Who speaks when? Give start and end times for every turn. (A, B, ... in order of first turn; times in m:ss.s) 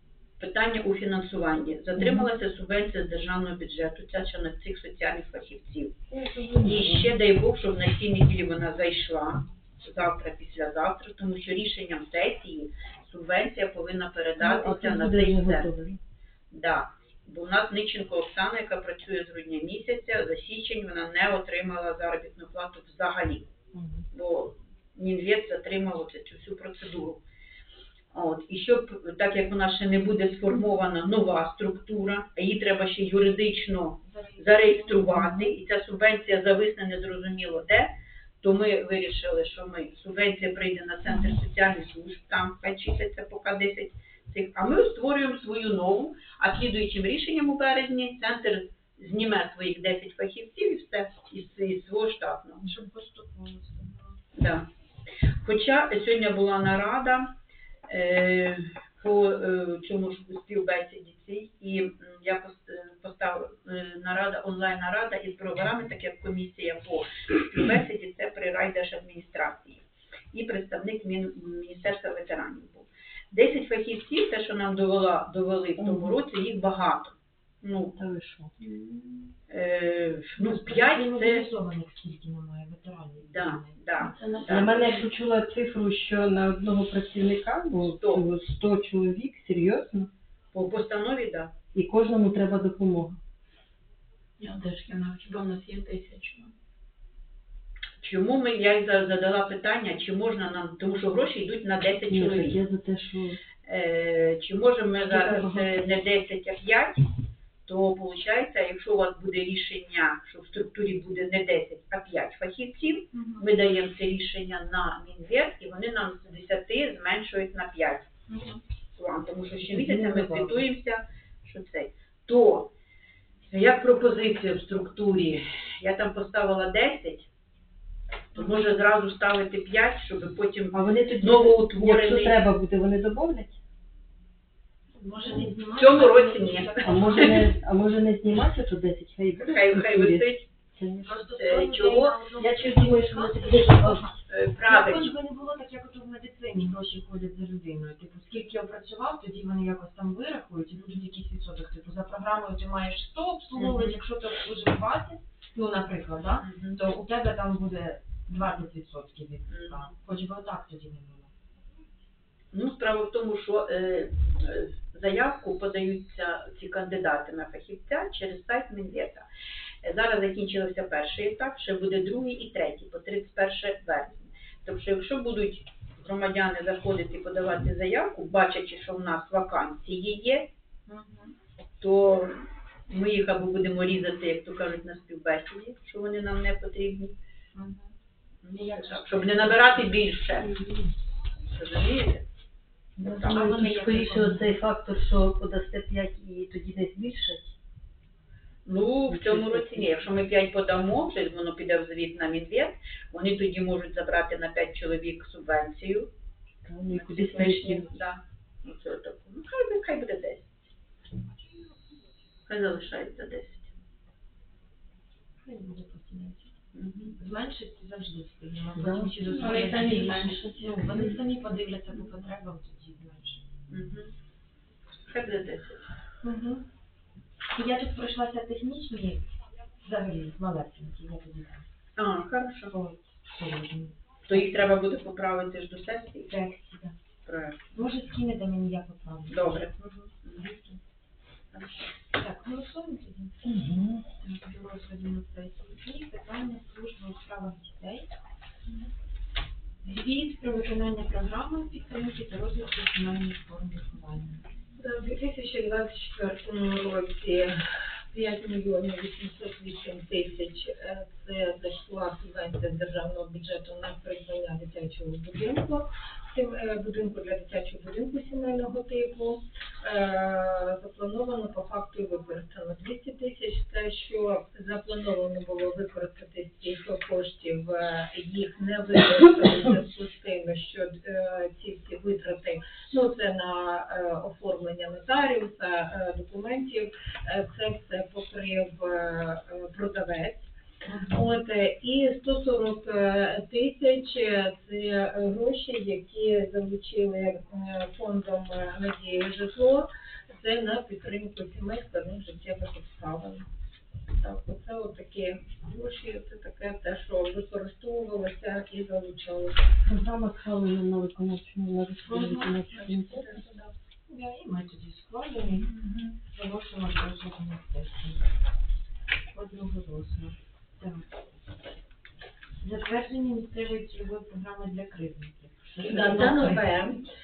0:00.4-0:06.0 A
0:01.9-0:02.3 B
0:06.1-0:07.2 B
0:06.6-0:15.7 A
0:14.4-0:16.0 B
0:16.5-0:23.5 A
0:23.7-0:24.0 B
0:24.1-0:27.2 A
0:28.1-0:52.7 A
0:34.0-0:35.5 C
0:52.6-0:54.1 C
0:54.3-0:54.7 A
0:55.4-0:57.3 A
0:57.9-1:18.0 A
1:15.8-1:16.2 B
1:18.0-1:18.5 B
1:18.6-1:21.5 A
1:20.4-1:24.1 C
1:23.2-1:24.8 A
1:24.0-1:25.0 D
1:24.5-1:30.1 B
1:27.8-1:28.2 A
1:30.5-1:31.5 A
1:31.7-1:33.2 B
1:34.4-1:36.5 D
1:38.0-1:42.6 A
1:42.1-1:43.4 B
1:43.6-1:47.1 A
1:45.0-1:45.7 B
1:47.6-1:58.2 A
1:58.9-2:02.7 A
1:59.6-2:00.7 B
2:03.6-2:07.3 A
2:03.6-2:05.3 D
2:08.3-2:12.4 A
2:10.7-2:13.6 B
2:15.0-2:17.5 C
2:15.3-2:17.5 A
2:16.8-2:21.3 B
2:19.4-2:20.5 A
2:21.0-2:41.3 C
2:21.4-2:22.2 A
2:22.4-2:24.1 B
2:24.3-2:25.2 A
2:33.5-2:34.0 A
2:36.4-2:36.8 A
2:39.5-2:39.9 A
2:42.5-2:49.3 A
2:49.8-3:00.5 A
3:00.9-3:01.3 C
3:01.8-3:07.1 A
3:07.5-3:07.9 C
3:08.4-3:10.6 A
3:08.5-3:10.0 C
3:11.4-3:12.2 A
3:13.0-3:17.6 B
3:13.0-3:14.6 C
3:13.1-3:13.6 A
3:18.6-3:26.1 A
3:19.1-3:20.1 B
3:26.6-3:27.9 B
3:26.9-3:30.5 A
3:32.5-3:33.7 A
3:35.4-3:36.5 C
3:36.7-3:37.2 A
3:37.2-3:43.4 C
3:38.7-3:39.4 B
3:39.3-3:41.0 D
3:43.7-3:44.1 A
3:45.1-3:45.9 A
3:46.2-3:46.6 C
3:47.5-3:49.3 C
3:49.8-3:51.6 C
3:52.0-3:52.7 A
3:52.7-3:54.4 C
3:54.3-3:56.3 A
3:56.2-3:57.0 C
3:57.2-3:57.8 A
3:57.7-3:59.7 C
3:59.3-4:00.6 A
4:01.6-4:08.1 C
4:03.4-4:04.0 B
4:09.8-4:14.4 C
4:14.8-4:17.6 E
4:18.1-4:50.5 E
4:51.1-5:03.4 E
5:04.1-5:09.6 E
5:09.8-5:13.4 B
5:12.1-5:12.7 C
5:12.8-5:13.7 E
5:14.1-5:18.3 C
5:15.4-5:16.0 E
5:19.3-5:21.2 C
5:22.6-5:26.7 C
5:25.8-5:27.0 E